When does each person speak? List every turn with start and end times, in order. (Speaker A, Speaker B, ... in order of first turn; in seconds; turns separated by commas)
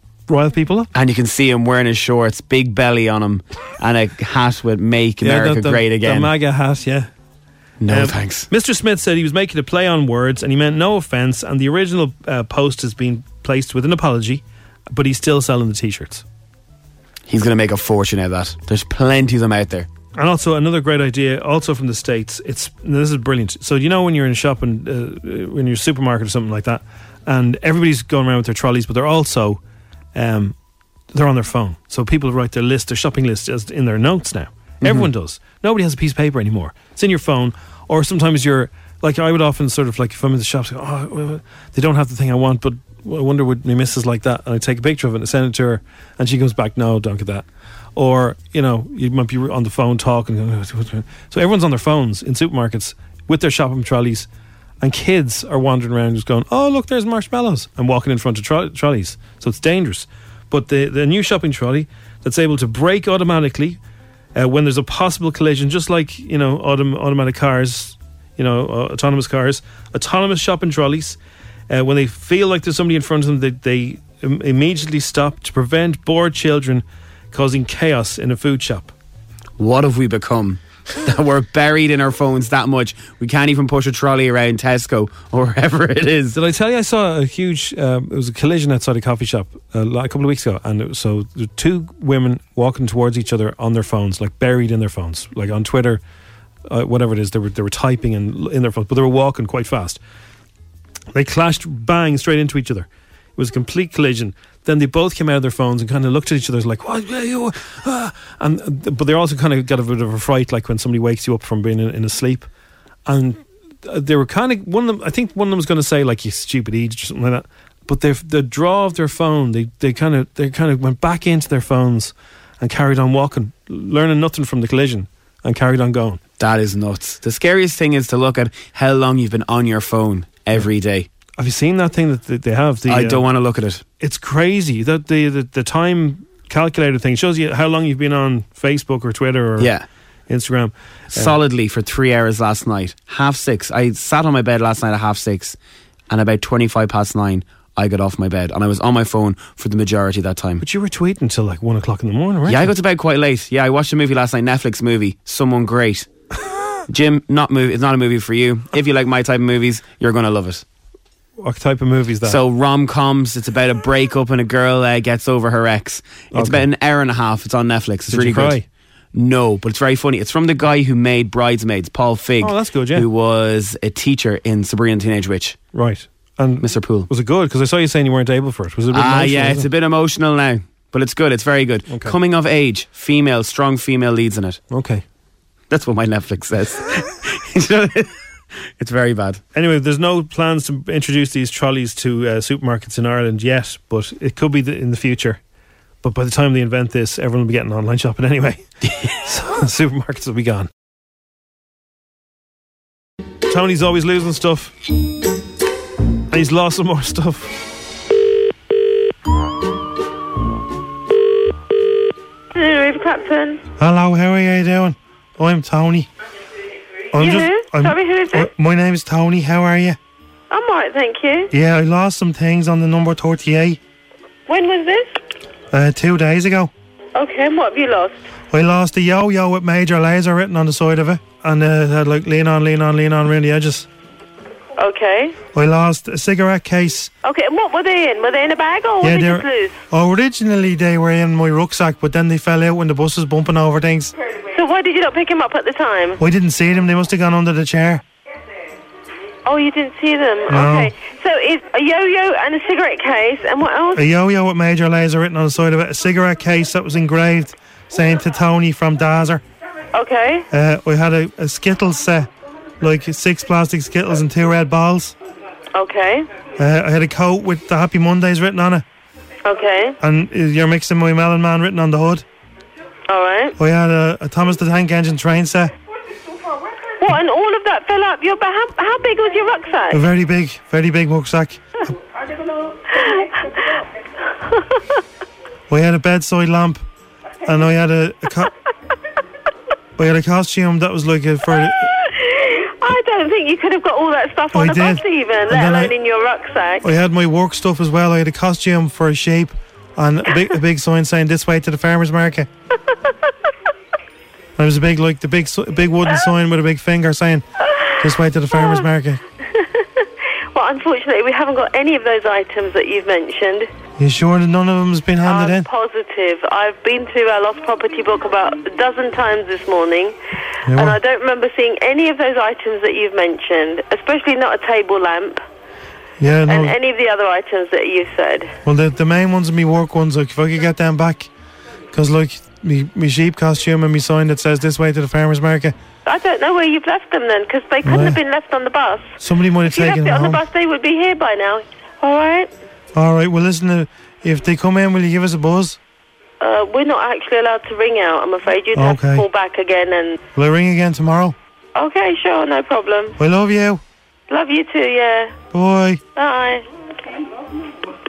Speaker A: 0.3-0.9, Speaker B: 0.9-6.3, Speaker A: 5.2-7.1, Speaker B: 7.8-8.5, Speaker A: 7.9-16.2, Speaker B: 17.3-19.9, Speaker A: 20.1-29.6, Speaker A: 30.1-30.6, Speaker A: 31.1-54.3, Speaker B: 34.8-35.1, Speaker A: 54.8-63.8, Speaker A: 64.3-71.2, Speaker A: 71.7-78.9, Speaker B: 79.6-86.3, Speaker A: 86.3-96.0, Speaker A: 96.7-100.0, Speaker A: 101.1-112.5, Speaker A: 113.1-126.2, Speaker B: 126.4-131.1, Speaker A: 131.4-133.3, Speaker B: 132.9-133.8, Speaker A: 134.0-139.7, Speaker B: 139.6-139.8, Speaker A: 140.3-141.4, Speaker B: 141.1-145.6, Speaker B: 146.1-150.6, Speaker A: 150.6-152.7, Speaker B: 152.4-156.1, Speaker B: 156.9-160.6, Speaker A: 161.4-162.4, Speaker B: 162.2-168.6, Speaker A: 166.3-166.7, Speaker A: 168.1-168.6, Speaker B: 169.1-175.6, Speaker A: 172.4-173.1, Speaker A: 175.7-179.7, Speaker B: 176.6-177.1, Speaker B: 178.9-184.6, Speaker A: 181.9-182.1, Speaker A: 184.7-185.0, Speaker B: 185.7-188.1, Speaker B: 188.8-189.4, Speaker A: 189.5-195.4, Speaker A: 196.0-198.7, Speaker A: 199.2-200.7, Speaker A: 203.5-204.7, Speaker A: 206.3-207.5, Speaker C: 212.6-213.6, Speaker D: 213.8-216.1, Speaker D: 217.1-220.0, Speaker C: 217.2-218.5, Speaker C: 220.5-221.5, Speaker D: 221.5-223.8, Speaker C: 224.5-225.1, Speaker D: 225.7-226.7, Speaker C: 227.1-228.2, Speaker D: 228.5-233.9, Speaker C: 234.8-235.4, Speaker D: 235.5-237.1, Speaker C: 237.2-239.8, Speaker D: 239.0-244.1, Speaker C: 244.5-246.2, Speaker D: 246.2-248.0, Speaker C: 249.4-254.0, Speaker D: 250.5-250.9, Speaker D: 253.9-259.4, Speaker C: 259.9-260.4, Speaker D: 260.5-262.3, Speaker D: 262.8-265.1, Speaker C: 265.7-266.3, Speaker D: 266.6-268.8, Speaker C: 269.4-269.9, Speaker D: 270.0-272.2, Speaker C: 273.1-273.5, Speaker D: 273.6-275.7, Speaker C: 277.0-280.0, Speaker D: 279.9-281.9, Speaker C: 282.9-283.3, Speaker D: 285.7-286.8, Speaker D: 287.4-288.5, Speaker D: 290.0-291.8, Speaker C: 291.5-296.9, Speaker D: 294.5-295.9, Speaker D: 296.8-302.5, Speaker D: 304.6-307.4, Speaker D: 308.0-309.2, Speaker C: 308.6-308.8, Speaker C: 310.5-313.7, Speaker D: 314.0-315.7, Speaker C: 315.2-320.1, Speaker D: 320.7-321.0, Speaker C: 320.7-325.4, Speaker D: 326.2-326.7, Speaker C: 326.5-328.5, Speaker D: 328.6-331.3, Speaker D: 331.9-335.7, Speaker C: 336.1-342.5, Speaker D: 337.8-338.2, Speaker D: 339.2-340.4, Speaker D: 342.9-345.8, Speaker C: 346.4-350.2, Speaker D: 348.7-349.3, Speaker D: 350.3-351.3, Speaker C: 351.7-353.1, Speaker D: 353.2-353.8, Speaker C: 354.3-355.4, Speaker D: 355.5-356.0, Speaker C: 356.1-356.6